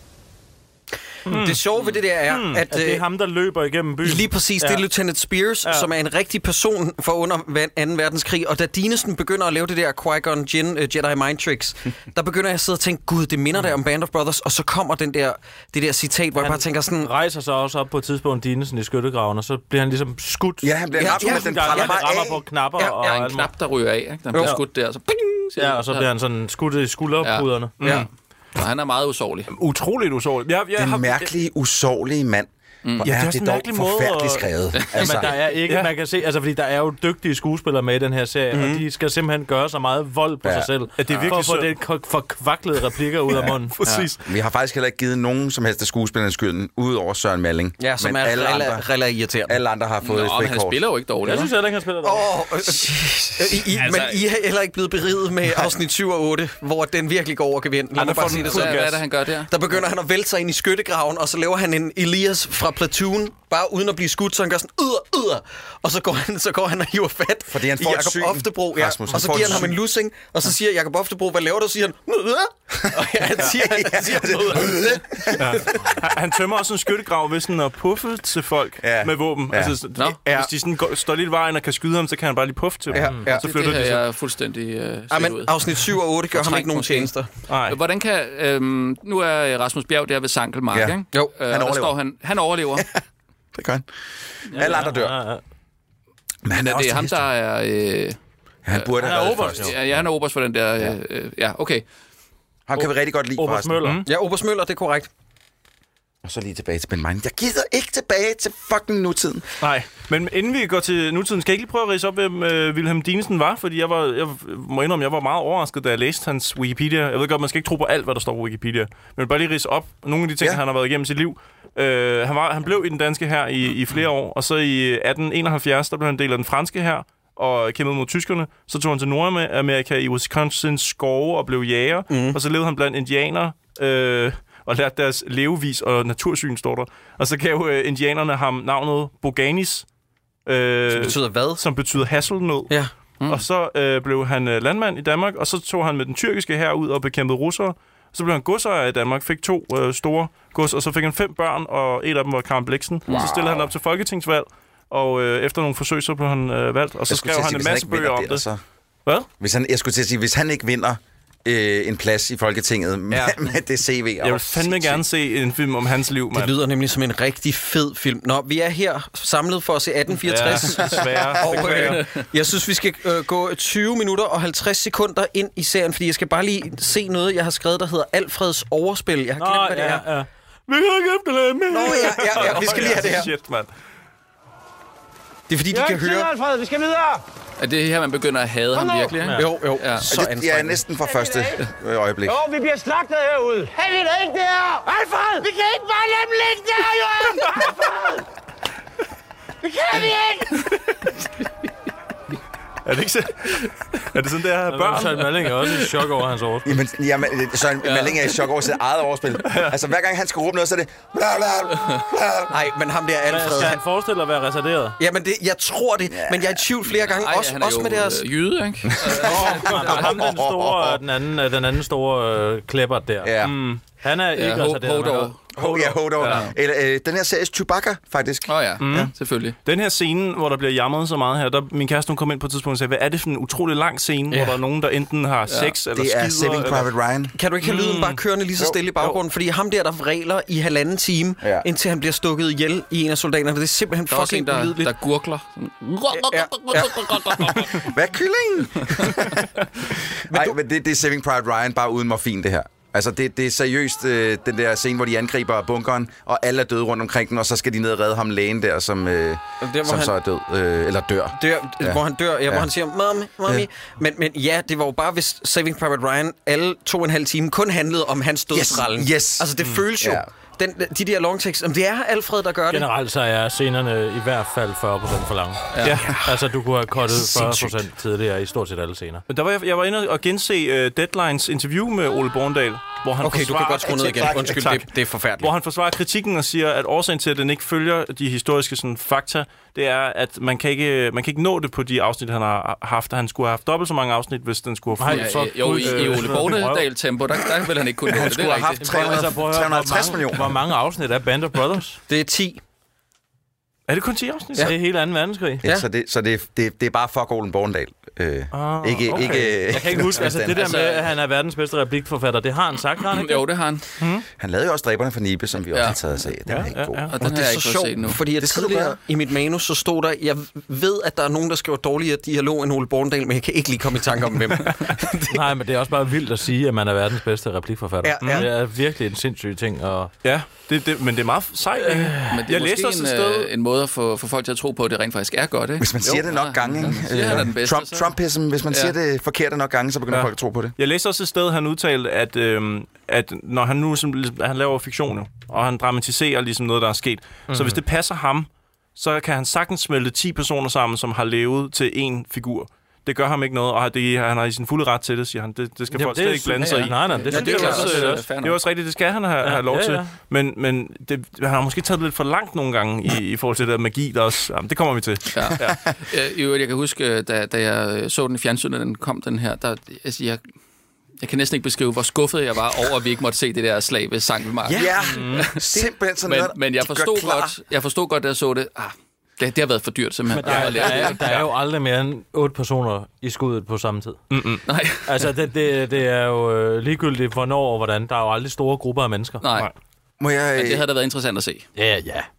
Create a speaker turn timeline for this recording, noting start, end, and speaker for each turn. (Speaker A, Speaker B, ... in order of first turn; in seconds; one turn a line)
Speaker A: 1.3-3.0
Speaker B: 1.3-1.6
Speaker C: 1.3-1.6
Speaker B: 2.3-4.9
Speaker A: 4.0-17.1
Speaker B: 5.6-5.9
Speaker B: 16.4-23.5
Speaker D: 20.6-22.4
Speaker A: 21.0-22.2
Speaker A: 22.8-23.4
Speaker E: 23.1-26.1
Speaker A: 24.3-24.6
Speaker B: 25.6-27.8
Speaker E: 27.2-29.5
Speaker C: 27.8-28.1
Speaker C: 29.5-31.3
Speaker D: 30.8-35.4
Speaker C: 33.0-34.5
Speaker E: 34.7-35.2
Speaker B: 35.0-43.8
Speaker C: 35.6-35.9
Speaker A: 38.5-38.8
Speaker D: 40.4-40.7
Speaker C: 41.0-41.8
Speaker E: 41.1-41.4
Speaker C: 43.7-44.2
Speaker E: 43.9-44.1
Speaker D: 44.2-48.9
Speaker A: 47.8-49.6
Speaker D: 49.5-50.9
Speaker E: 50.0-51.5
Speaker B: 51.2-52.3
Speaker A: 52.0-58.9
Speaker D: 52.9-53.6
Speaker E: 53.8-54.2
Speaker C: 57.9-59.0
Speaker E: 58.0-59.5
Speaker A: 59.5-75.8
Speaker D: 67.5-69.8
Speaker D: 73.4-75.6
Speaker C: 75.4-84.0
Speaker D: 78.8-79.8
Speaker A: 80.0-80.5
Speaker A: 82.9-83.4
Speaker E: 83.4-87.1
Speaker A: 85.1-87.3
Speaker C: 87.5-87.8
Speaker E: 87.7-92.9
Speaker D: 90.7-92.0
Speaker D: 93.5-93.9
Speaker D: 94.5-95.1
Speaker B: 94.6-95.4
Speaker D: 96.4-97.3
Speaker E: 96.5-98.2
Speaker D: 98.6-99.8
Speaker E: 98.7-101.8
Speaker B: 99.0-99.7
Speaker D: 102.7-103.8
Speaker B: 102.8-104.0
Speaker C: 103.8-104.1
Speaker A: 104.0-105.1
Speaker D: 106.2-109.5
Speaker C: 109.6-139.9
Speaker A: 132.1-132.4
Speaker C: 140.4-142.7
Speaker A: 140.9-141.6
Speaker C: 143.2-158.4
Speaker D: 153.1-153.7
Speaker D: 157.1-158.6
Speaker D: 159.4-165.0
Speaker C: 164.2-166.6
Speaker A: 166.3-180.1
Speaker C: 170.1-172.1
Speaker B: 179.4-183.1
Speaker A: 181.7-183.3
Speaker C: 182.2-183.7
Speaker A: 185.5-186.3
Speaker F: 185.7-187.2
Speaker E: 187.6-190.1
Speaker F: 188.7-189.2
Speaker B: 189.2-189.5
Speaker A: 189.3-190.8
Speaker D: 190.1-192.4
Speaker F: 191.0-191.6
Speaker F: 192.2-198.2
Speaker F: 199.6-200.5
Speaker C: 202.8-205.4
Speaker B: 204.7-206.8
Speaker D: 206.6-212.6
Speaker E: 207.8-208.4
Speaker C: 209.5-209.7
Speaker A: 212.5-213.8
Speaker B: 213.3-215.0
Speaker A: 215.0-218.2
Speaker D: 216.1-216.6
Speaker E: 216.9-220.1
Speaker D: 219.0-221.0
Speaker B: 219.2-226.3
Speaker D: 223.2-223.6
Speaker C: 223.5-223.8
Speaker E: 224.3-225.4
Speaker D: 225.6-229.1
Speaker E: 226.2-226.5
Speaker E: 228.5-229.6
Speaker C: 228.8-229.1
Speaker C: 229.6-236.9
Speaker A: 234.3-234.6
Speaker E: 235.5-235.7
Speaker D: 235.9-237.3
Speaker A: 237.3-244.9
Speaker C: 237.6-238.2
Speaker D: 241.4-241.7
Speaker E: 244.1-247.9
Speaker A: 246.1-247.7
Speaker D: 247.7-262.7
Speaker A: 250.3-250.6
Speaker A: 259.6-260.1
Speaker A: 261.4-272.9
Speaker D: 268.5-270.3
Speaker B: 272.7-279.2
Speaker E: 275.7-276.0
Speaker C: 275.8-276.2
Speaker A: 277.1-277.7
Speaker C: 279.3-284.9
Speaker A: 283.2-285.5
Speaker C: 285.4-296.6
Speaker B: 295.0-296.9
Speaker E: 295.1-299.2
Speaker D: 298.1-300.6
Speaker B: 298.8-302.0
Speaker A: 302.1-302.6
Speaker C: 303.9-304.7
Speaker B: 304.6-305.6
Speaker D: 305.6-310.8
Speaker C: 308.5-309.6
Speaker B: 309.1-313.4
Speaker E: 310.6-311.0
Speaker E: 313.1-313.9
Speaker C: 314.0-314.2
Speaker D: 314.4-317.1
Speaker C: 316.5-317.1
Speaker E: 317.1-318.2
Speaker A: 317.2-325.4
Speaker D: 318.2-319.0
Speaker B: 325.3-330.1
Speaker A: 328.0-328.5
Speaker C: 328.2-328.5
Speaker C: 330.2-333.5
Speaker B: 331.8-332.3
Speaker E: 332.3-338.1
Speaker D: 335.8-340.7
Speaker E: 338.7-338.9
Speaker C: 340.1-365.8
Speaker B: 347.5-347.8
Speaker B: 355.9-358.2
Speaker E: 357.1-358.6
Speaker A: 357.3-358.0
Speaker B: 359.4-360.1
Speaker E: 365.3-370.4
Speaker E: 371.2-381.5
Speaker D: 374.7-377.6
Speaker C: 375.1-375.6
Speaker B: 380.3-384.2
Speaker C: 384.3-384.6
Speaker E: 384.7-385.3
Speaker B: 385.1-389.4
Speaker E: 389.4-389.7
Speaker D: 390.2-390.9
Speaker E: 390.5-391.6
Speaker B: 391.8-392.3